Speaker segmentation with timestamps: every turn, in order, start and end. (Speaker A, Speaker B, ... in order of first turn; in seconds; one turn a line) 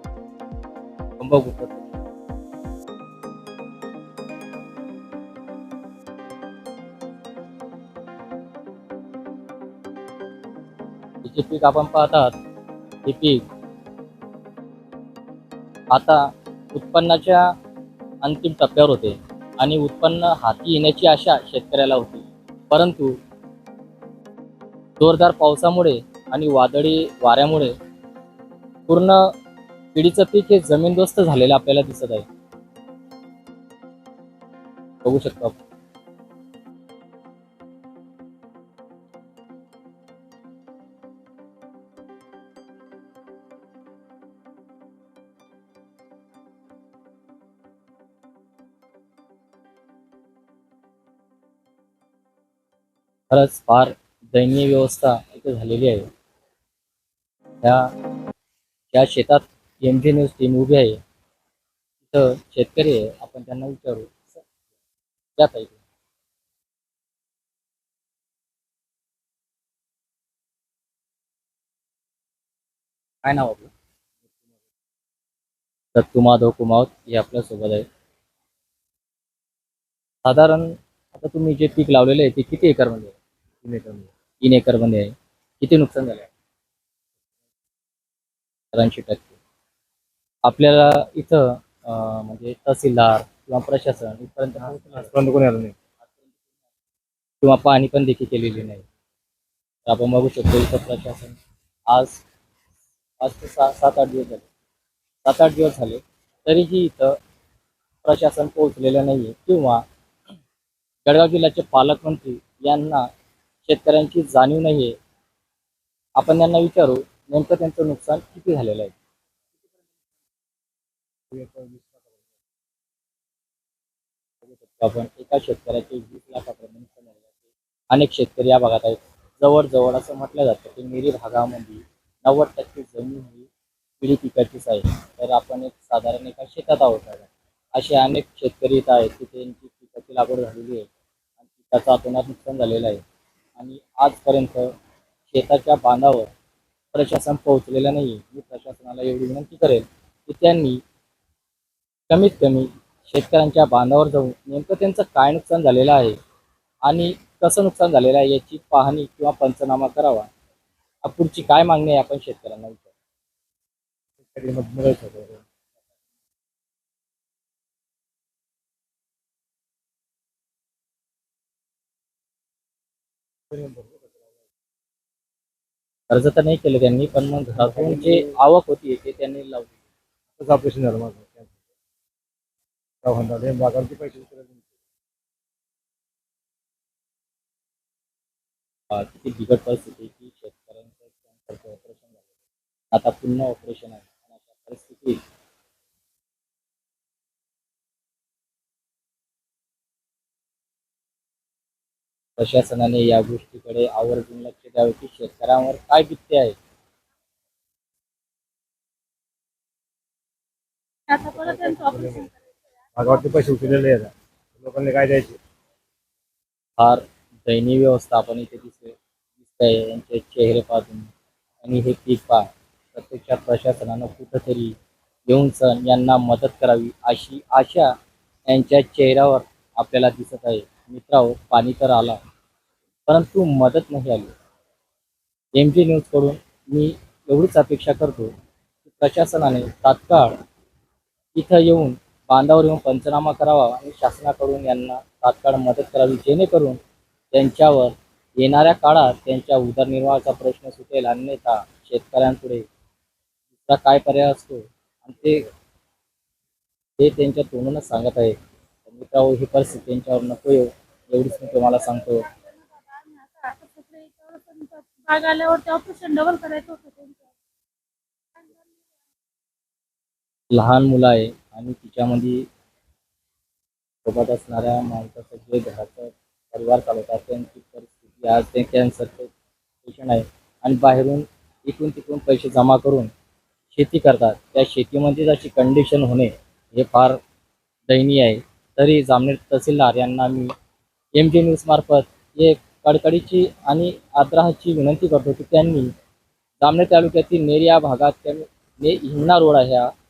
Speaker A: 1.2-1.9
Speaker A: 11.2-12.3
Speaker A: 13.1-13.4
Speaker A: 15.9-17.4
Speaker A: 18.2-23.1
Speaker A: 25.0-27.7
Speaker A: 28.9-29.3
Speaker A: 29.9-32.3
Speaker A: 35.0-35.6
Speaker A: 53.3-56.1
Speaker A: 57.6-57.9
Speaker A: 58.9-61.0
Speaker A: 62.0-64.5
Speaker A: 65.4-65.8
Speaker A: 73.2-73.7
Speaker A: 76.0-77.8
Speaker A: 80.2-83.1
Speaker B: 83.6-84.1
Speaker A: 84.4-86.3
Speaker A: 88.7-89.4
Speaker A: 90.5-95.2
Speaker B: 95.0-95.8
Speaker A: 97.4-98.8
Speaker A: 99.9-101.4
Speaker A: 101.9-102.2
Speaker A: 103.2-104.5
Speaker A: 105.2-107.2
Speaker A: 108.0-109.8
Speaker A: 111.0-113.1
Speaker A: 113.7-115.0
Speaker A: 116.2-119.0
Speaker B: 121.3-122.1
Speaker A: 124.5-127.3
Speaker A: 127.9-140.9
Speaker A: 141.4-143.0
Speaker A: 143.6-144.7
Speaker A: 145.3-146.3
Speaker A: 146.9-150.8
Speaker A: 152.1-156.2
Speaker A: 156.9-160.3
Speaker A: 161.0-162.9
Speaker B: 164.2-165.4
Speaker B: 173.5-174.2
Speaker A: 176.1-179.7
Speaker B: 177.6-178.2
Speaker B: 180.4-181.6
Speaker B: 183.0-184.7
Speaker A: 188.9-192.2
Speaker A: 192.9-195.2
Speaker A: 202.4-206.6
Speaker C: 211.1-212.4
Speaker B: 211.4-212.3
Speaker B: 213.0-215.4
Speaker A: 216.8-221.1
Speaker A: 221.6-224.8
Speaker A: 225.3-227.9
Speaker A: 228.5-232.2
Speaker A: 233.1-234.3
Speaker A: 235.6-238.3
Speaker A: 238.8-240.3
Speaker A: 241.3-246.8
Speaker A: 247.3-252.7
Speaker A: 253.6-255.4
Speaker A: 257.0-262.3
Speaker C: 262.3-267.3
Speaker C: 268.4-268.8
Speaker A: 270.5-272.5
Speaker A: 274.1-279.3
Speaker A: 279.8-283.1
Speaker A: 283.7-287.2
Speaker A: 287.9-290.5
Speaker A: 291.1-295.9
Speaker A: 296.6-299.9